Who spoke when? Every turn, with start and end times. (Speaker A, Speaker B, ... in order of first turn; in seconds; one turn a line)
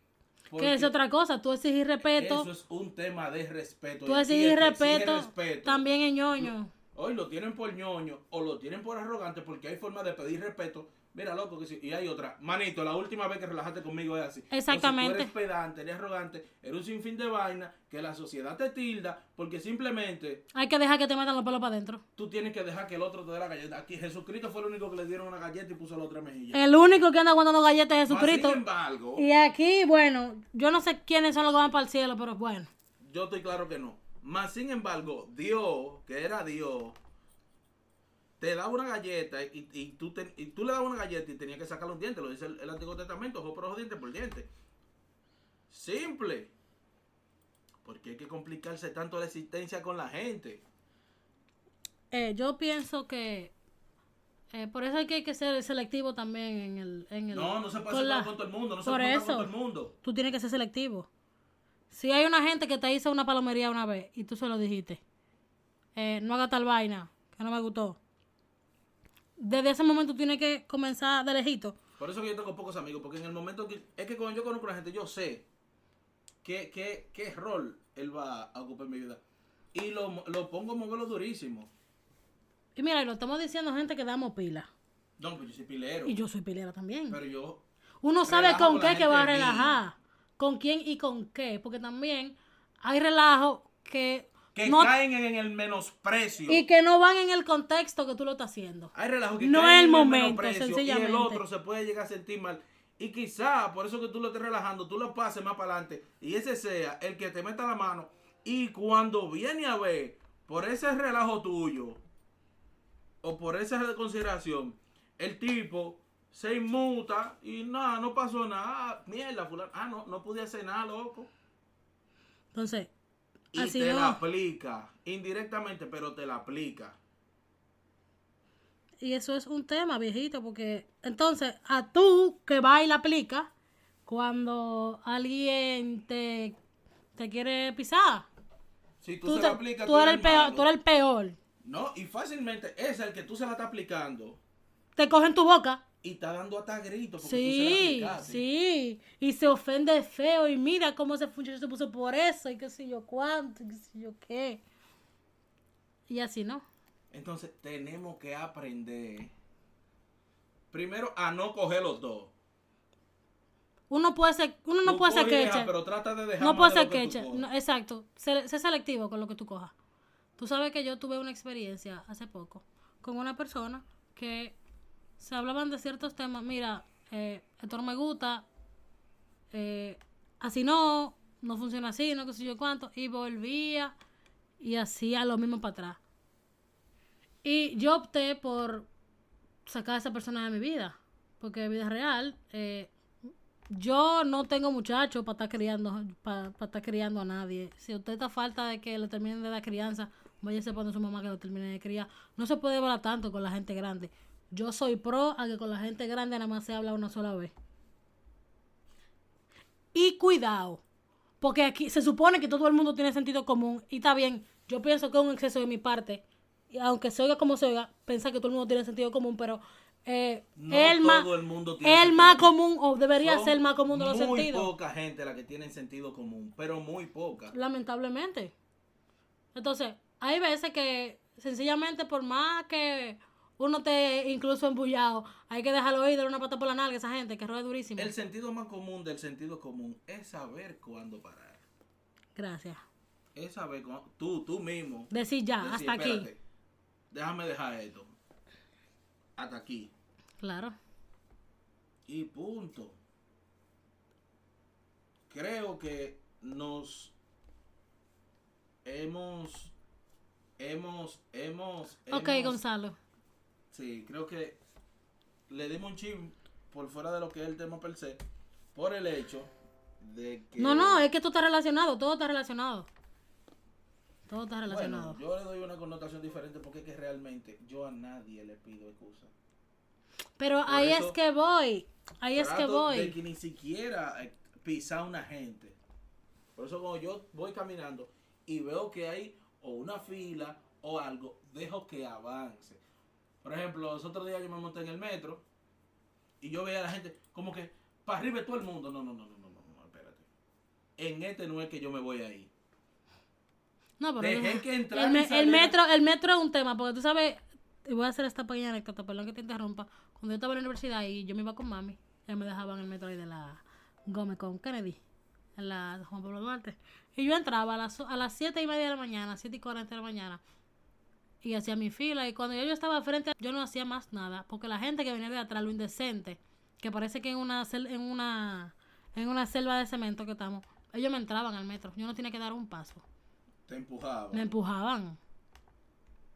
Speaker A: 0.5-0.9
Speaker B: 0.6-2.5
Speaker A: 2.0-20.4
Speaker B: 4.1-6.7
Speaker B: 14.5-15.3
Speaker B: 20.5-22.0
Speaker A: 22.2-26.7
Speaker B: 26.5-28.6
Speaker A: 28.1-29.3
Speaker B: 29.2-32.7
Speaker A: 33.0-37.0
Speaker A: 38.4-44.5
Speaker A: 45.7-46.5
Speaker A: 47.8-50.6
Speaker B: 52.1-53.5
Speaker B: 54.5-58.3
Speaker A: 57.3-60.0
Speaker B: 58.8-59.5
Speaker B: 60.0-61.1
Speaker B: 61.9-65.0
Speaker B: 66.0-68.0
Speaker B: 69.4-71.8
Speaker A: 72.0-75.5
Speaker A: 76.4-79.2
Speaker A: 79.7-81.7
Speaker B: 82.8-84.7
Speaker A: 85.2-86.2
Speaker B: 86.0-87.2
Speaker A: 87.1-87.6
Speaker B: 88.0-94.9
Speaker A: 88.3-89.8
Speaker A: 94.5-96.7
Speaker B: 96.5-101.4
Speaker A: 98.9-112.0
Speaker A: 113.2-121.3
Speaker B: 122.5-122.9
Speaker A: 123.5-127.0
Speaker B: 123.6-124.2
Speaker B: 129.0-133.5
Speaker B: 134.1-136.6
Speaker B: 137.2-138.3
Speaker A: 139.0-140.7
Speaker B: 139.2-141.4
Speaker A: 141.6-144.4
Speaker B: 145.0-145.8
Speaker A: 146.0-148.4
Speaker B: 147.2-154.6
Speaker B: 156.1-156.7
Speaker A: 157.1-159.3
Speaker A: 160.7-162.3
Speaker B: 163.9-165.7
Speaker A: 164.8-167.5
Speaker B: 166.4-169.7
Speaker B: 170.4-174.6
Speaker B: 175.2-178.4
Speaker B: 179.5-183.9
Speaker B: 184.6-186.0
Speaker B: 187.4-188.9
Speaker B: 189.7-192.9
Speaker B: 193.7-207.5
Speaker B: 209.9-210.8
Speaker B: 211.4-221.3
Speaker A: 220.6-222.5
Speaker B: 221.8-224.7
Speaker A: 223.2-227.6
Speaker B: 227.5-228.5
Speaker B: 229.6-238.1
Speaker A: 238.0-241.6
Speaker B: 242.4-242.8
Speaker A: 243.3-246.4
Speaker B: 245.1-246.3
Speaker A: 247.1-248.2
Speaker A: 249.4-249.9
Speaker B: 250.4-250.8
Speaker A: 252.1-253.0
Speaker A: 255.3-257.1
Speaker A: 258.9-259.7
Speaker A: 260.6-262.6
Speaker B: 262.1-263.0
Speaker A: 263.7-264.6
Speaker A: 265.5-268.2
Speaker A: 268.8-271.1
Speaker B: 270.6-272.9
Speaker B: 274.3-275.2
Speaker A: 274.7-279.3
Speaker B: 280.4-283.2
Speaker A: 280.7-281.2
Speaker A: 282.3-285.8
Speaker A: 286.6-292.8
Speaker A: 293.4-295.4
Speaker A: 296.4-300.3
Speaker A: 301.0-302.5
Speaker B: 304.0-315.0
Speaker A: 304.2-305.8
Speaker B: 315.6-320.4
Speaker B: 321.4-333.1
Speaker A: 333.7-334.5
Speaker B: 334.3-335.2